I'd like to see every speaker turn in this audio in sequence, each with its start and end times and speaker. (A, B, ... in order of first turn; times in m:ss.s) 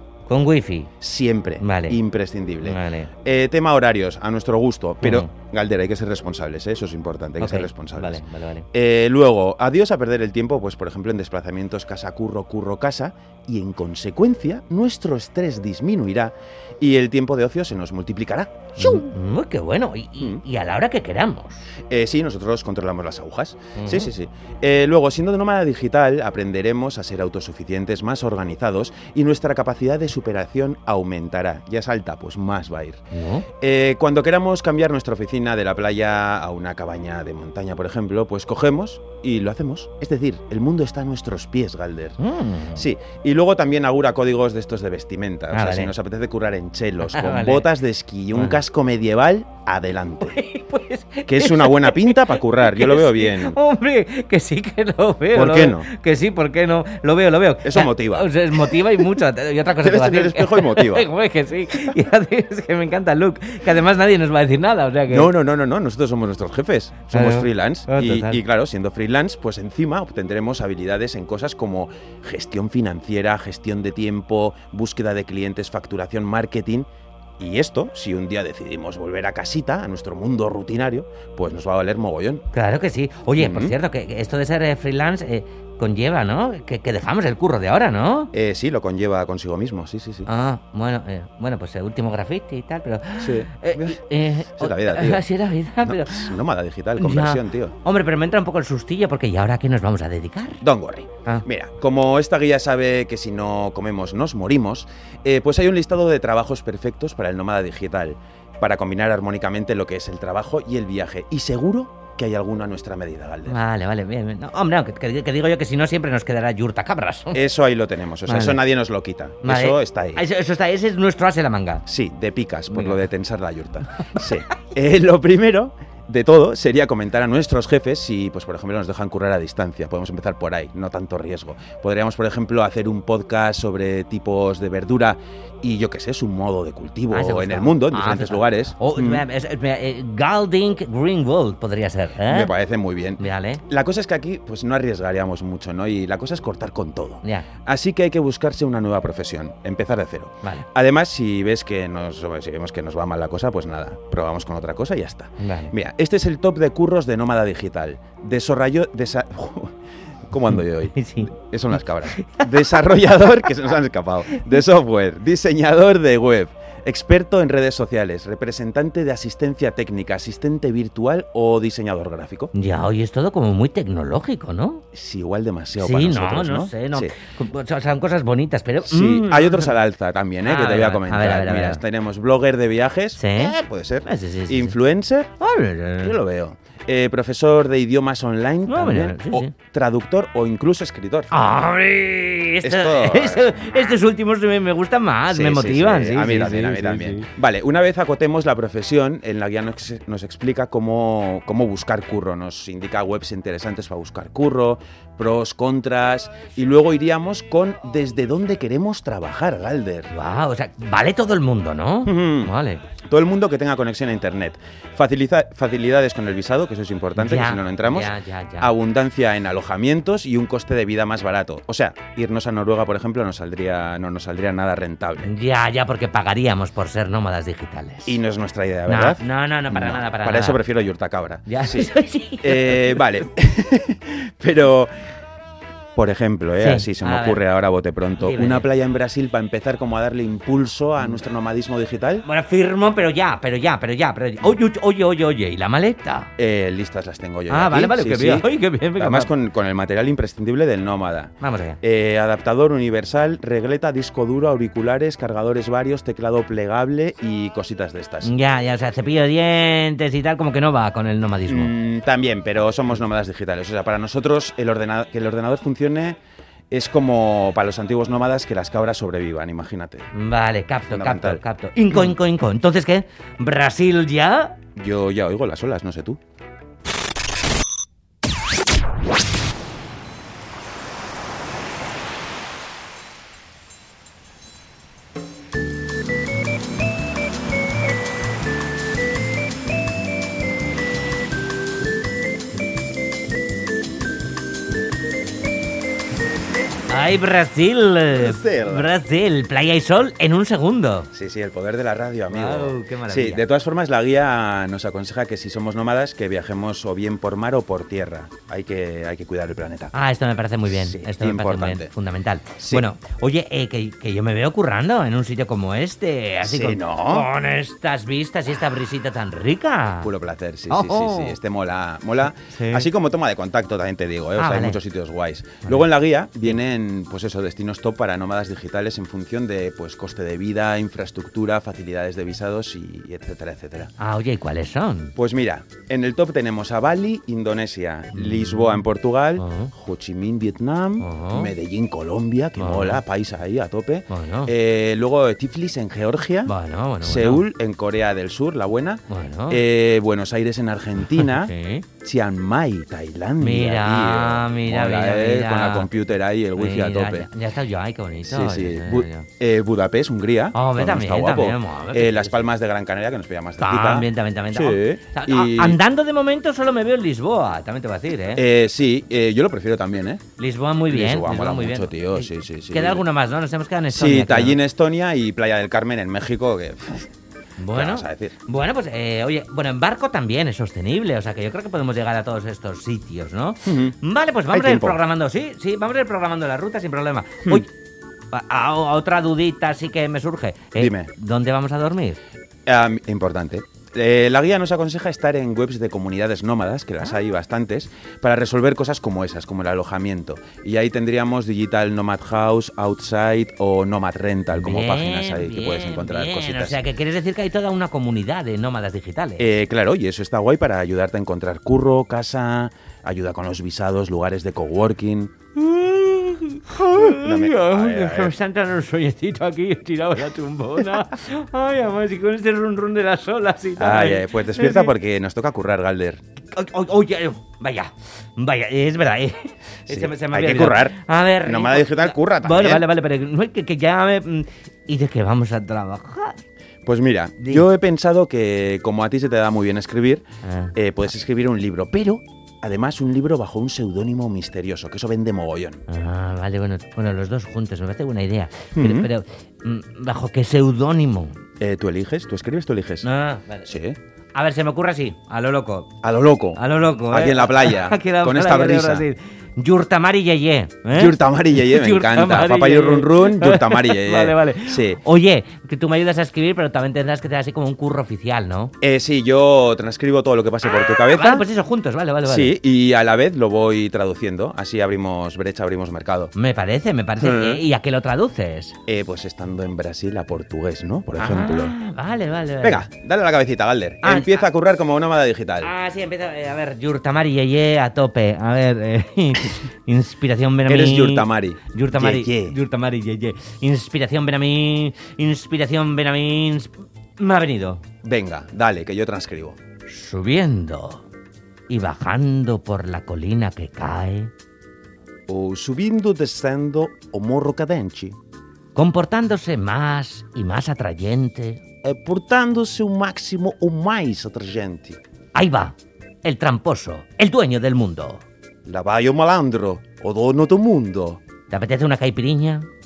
0:00.3-0:00.9 A
0:01.0-0:19.1 B
0:01.6-0:02.0 A
0:02.6-0:03.1 A
0:05.0-0:05.3 A
0:07.4-0:08.7 A
0:18.8-0:21.6 A
0:21.9-0:33.0 B
0:23.8-0:24.1 A
0:33.1-0:33.5 A
0:33.6-0:42.2 B
0:42.2-0:42.8 A
0:42.8-0:50.4 B
0:45.5-0:45.9 A
0:47.0-0:47.7 A
0:48.3-0:48.6 A
0:50.2-1:05.3 A
0:51.3-0:53.6 B
0:55.3-0:55.9 B
0:57.6-0:59.2 B
0:59.8-1:01.1 B
1:05.1-1:16.9 B
1:07.1-1:08.4 A
1:17.4-1:22.4 B
1:22.5-1:28.3 A
1:23.4-1:23.8 B
1:28.3-1:30.3 B
1:30.3-1:36.4 A
1:33.2-1:35.3 B
1:35.8-1:37.8 B
1:37.0-1:40.6 A
1:40.6-1:53.6 B
1:53.5-1:57.4 A
1:57.3-2:00.2 B
1:58.2-1:58.6 A
1:59.4-2:01.8 A
2:01.9-2:19.2 B
2:02.7-2:03.0 A
2:17.1-2:22.5 A
2:22.2-2:39.7 B
2:23.2-2:23.6 A
2:27.2-2:27.5 A
2:35.4-2:35.7 A
2:40.3-2:52.5 B
2:40.5-2:41.3 A
2:42.1-2:42.9 A
2:52.5-2:54.8 A
2:54.9-2:57.1 B
2:55.8-2:59.8 A
2:58.8-3:05.3 B
3:00.4-3:01.8 A
3:03.2-3:04.8 A
3:05.4-3:06.2 A
3:06.0-3:11.3 B
3:08.7-3:09.5 A
3:11.3-3:17.3 A
3:12.6-3:14.0 B
3:15.3-3:30.1 B
3:30.1-3:32.8 A
3:32.0-3:32.5 B
3:33.1-3:45.3 B
3:37.2-3:38.7 A
3:45.2-3:48.2 A
3:48.1-3:54.9 B
3:48.9-3:50.6 A
3:51.5-3:53.0 A
3:56.0-4:02.2 B
3:56.6-3:57.4 A
3:58.2-3:58.7 A
4:02.2-4:06.3 A
4:06.4-4:18.3 B
4:07.5-4:09.3 A
4:11.4-4:11.8 A
4:18.2-4:21.7 A
4:21.5-4:26.2 B
4:26.7-4:30.1 B
4:30.1-4:34.6 A
4:30.9-4:32.2 B
4:34.8-4:36.2 B
4:56.9-5:01.1 A
4:58.1-4:58.9 B
5:01.1-5:09.9 B
5:02.3-5:03.4 A
5:09.9-5:20.1 A
5:10.7-5:11.9 B
5:12.6-5:12.9 B
5:16.4-5:17.3 B
5:20.0-5:33.9 B
5:20.7-5:21.4 A
5:22.5-5:22.9 A
5:24.4-5:24.8 A
5:34.0-5:35.1 A
5:35.2-5:57.3 B
5:38.1-5:38.8 A
5:39.4-5:39.7 A
5:41.0-5:41.5 A
5:42.6-5:43.0 A
5:44.1-5:44.5 A
5:46.5-5:47.4 A
5:49.1-5:49.6 A
5:51.1-5:51.9 A
5:53.4-5:55.9 A
5:56.6-5:59.3 A
5:58.3-6:05.8 B
6:00.5-6:02.5 A
6:03.6-6:08.4 A
6:08.4-6:10.2 B
6:10.4-6:14.6 A
6:10.9-6:13.0 B
6:13.9-6:17.1 B
6:17.6-6:27.7 A
6:17.7-6:18.4 B
6:23.6-6:24.0 B
6:24.5-6:25.0 B
6:28.3-6:32.2 A
6:30.8-6:31.1 B
6:32.7-6:46.8 B
6:44.5-6:49.5 A
6:49.4-6:55.3 B
6:55.6-7:04.9 A
6:57.0-6:58.4 B
7:03.8-7:06.2 B
7:06.5-7:16.4 A
7:09.9-7:12.9 B
7:16.8-7:20.2 B
7:20.4-7:20.7 A
7:20.8-7:25.8 B
7:25.9-7:31.4 A
7:28.8-7:29.1 B
7:31.6-7:33.1 B
7:33.0-7:33.7 A
7:33.7-7:34.0 B
7:34.3-7:35.9 A
7:36.0-7:39.1 B
7:36.5-7:48.7 A
7:40.9-7:45.0 B
7:48.8-7:51.5 B
7:51.1-7:52.6 A
7:52.2-7:56.3 B
7:56.4-7:58.8 A
7:57.2-7:57.6 B
7:58.9-8:01.8 B
8:01.2-8:02.9 A
8:02.6-8:05.7 B
8:04.0-8:04.5 A
8:05.6-8:17.8 A
8:10.7-8:12.6 B
8:18.0-8:19.6 B
8:19.9-8:21.0 A
8:21.7-8:24.3 A
8:25.3-8:28.2 B
8:28.8-8:31.6 A
8:31.8-8:35.0 B
8:35.3-8:38.2 A
8:38.6-8:41.2 B
8:41.5-8:42.7 A